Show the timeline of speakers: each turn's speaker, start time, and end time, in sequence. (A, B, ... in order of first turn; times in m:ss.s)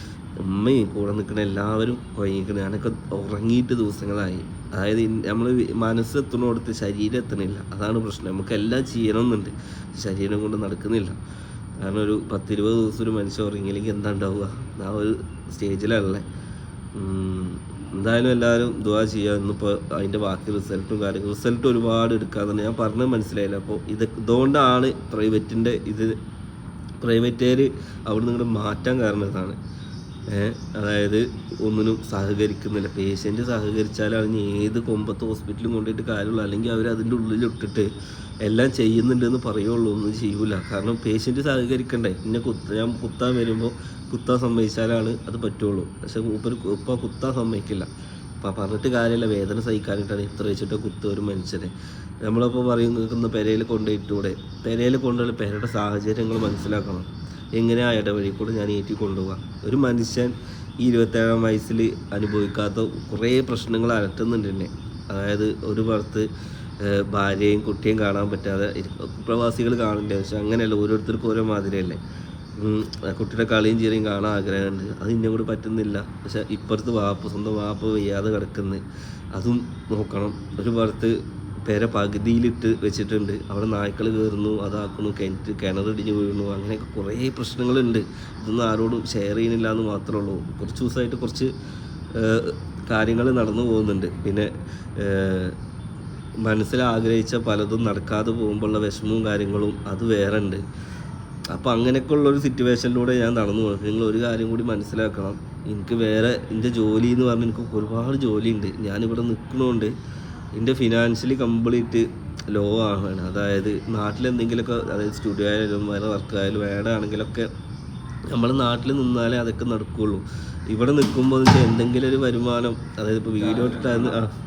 0:00.4-0:11.2 A
0:11.8-0:16.2 A
0:17.0-0:26.1 A
0:27.0-0:29.6 A
0:30.3-0:37.9 A
0:38.4-0:47.9 A
0:48.4-0:51.7 A
0:52.2-1:06.3 A
1:06.8-1:12.0 A
1:12.6-1:18.8 A
1:19.4-1:21.1 A
1:21.7-1:31.5 A
1:32.2-1:35.6 A
1:36.5-1:40.6 A
1:41.5-1:49.9 A
1:50.6-1:57.5 A
1:58.3-2:04.3 A